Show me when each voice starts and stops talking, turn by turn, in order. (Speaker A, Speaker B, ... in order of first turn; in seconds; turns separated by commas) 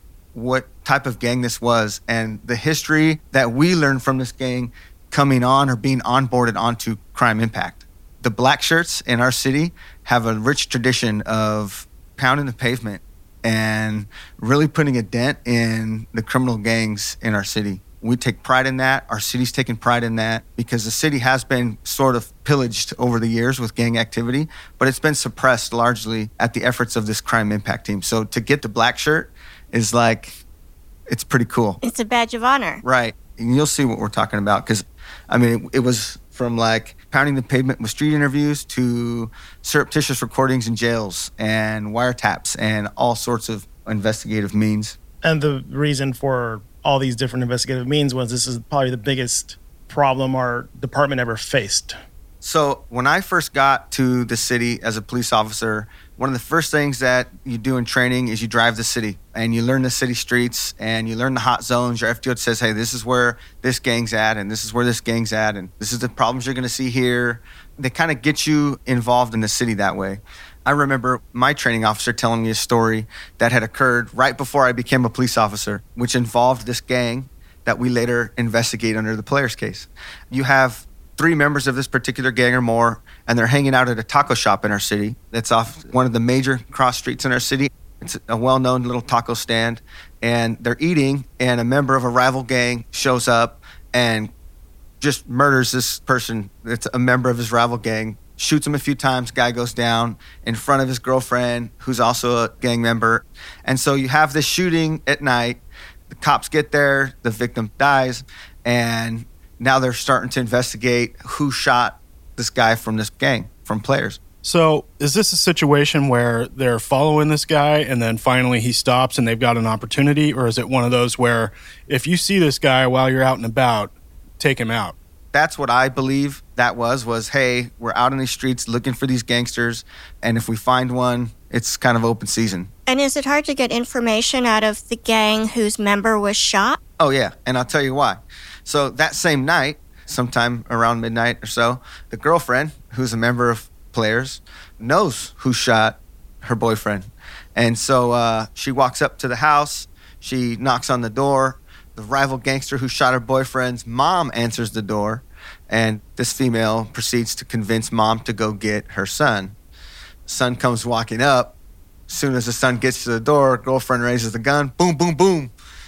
Speaker A: 0.3-30.4, Speaker A: 31.1-31.8, Speaker B: 31.8-32.8, Speaker A: 32.8-45.0, Speaker C: 45.2-52.0, Speaker A: 52.4-94.3, Speaker A: 95.0-114.2, Speaker D: 114.4-125.0, Speaker A: 125.3-132.7, Speaker B: 132.9-136.8, Speaker A: 137.0-159.6, Speaker A: 160.3-161.6, Speaker A: 162.1-165.5